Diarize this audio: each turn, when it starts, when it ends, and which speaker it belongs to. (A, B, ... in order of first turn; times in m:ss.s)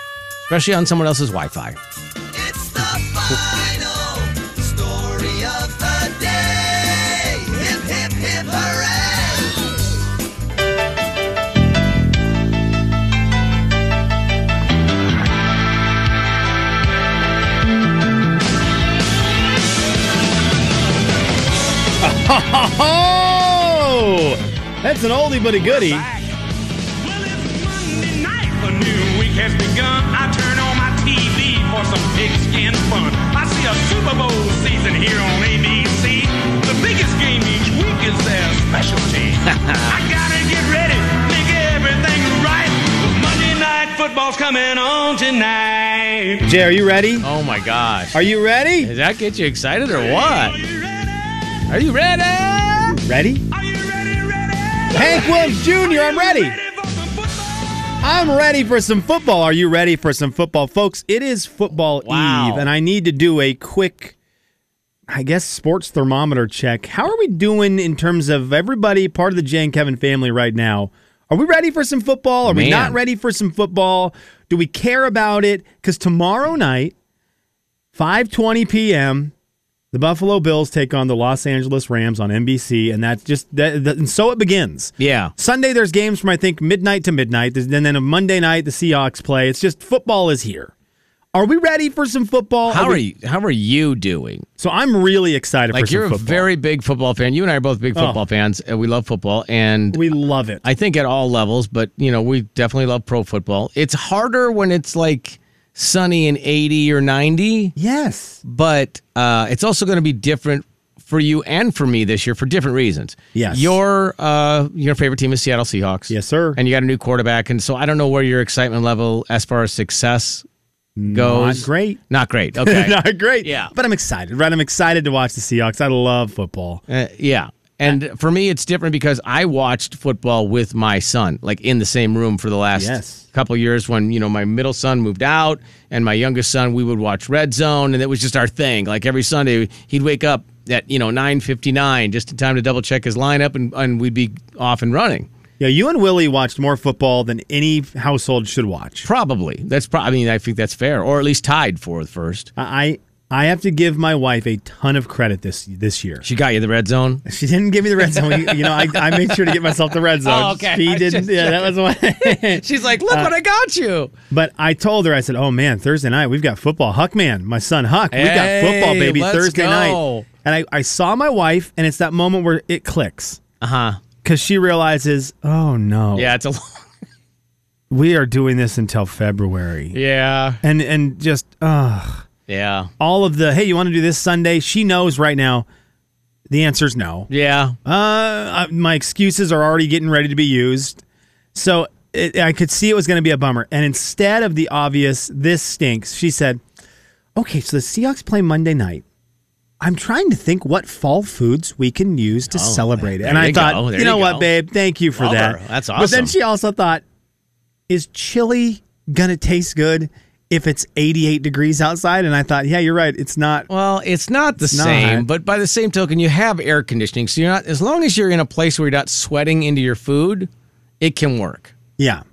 0:00.4-0:01.8 A
0:02.4-0:09.6 B
0:22.0-0:26.1 C
0:25.6-0:26.4 D
0:27.0-0:46.5 D
0:39.5-0:39.9 A
0:46.5-0:47.3 C
0:47.2-0:48.2 A
0:48.1-0:48.9 C
0:48.8-0:50.6 A
0:49.9-0:51.7 D
0:51.7-0:53.0 A
0:52.9-0:53.4 C
0:53.5-0:58.1 D
0:54.9-0:56.6 C
0:58.0-1:04.1 C
1:02.0-1:02.7 A
1:05.1-1:16.9 C
1:12.4-1:13.0 A
1:17.9-1:19.3 C
1:19.9-1:30.7 C
1:25.0-1:25.3 A
1:31.3-1:33.0 C
1:32.7-1:34.5 A
1:34.6-1:36.5 C
1:35.7-1:40.0 A
1:38.0-1:38.2 C
1:39.9-1:40.6 C
1:40.6-1:47.7 A
1:47.8-1:48.4 C
1:48.4-2:00.4 A
1:53.3-1:53.8 C
1:56.1-1:56.6 C
2:01.0-2:02.0 C
2:01.1-2:03.7 A
2:02.6-2:06.8 C
2:06.9-2:25.3 A
2:12.8-2:13.2 C
2:25.6-2:29.1 C
2:29.0-2:32.5 A
2:32.6-2:36.2 C
2:36.2-2:37.2 A
2:37.2-2:43.3 C
2:38.0-2:44.1 A
2:44.3-2:53.4 C
2:48.1-2:50.3 A
2:53.6-2:54.0 A
2:54.2-2:56.3 C
2:56.2-2:56.9 A
2:57.9-3:00.0 C
2:59.9-3:00.6 A
3:00.6-3:02.2 C
3:02.5-3:02.9 A
3:03.0-3:05.7 C
3:06.5-3:07.3 C
3:07.3-3:07.8 A
3:07.8-3:11.0 C
3:11.5-3:16.6 C
3:17.4-3:19.0 C
3:19.8-3:27.0 C
3:22.5-3:24.5 A
3:25.1-3:26.4 A
3:27.9-3:33.7 C
3:33.7-3:40.5 A
3:34.6-3:35.3 C
3:41.0-3:41.7 A
3:42.0-3:42.2 C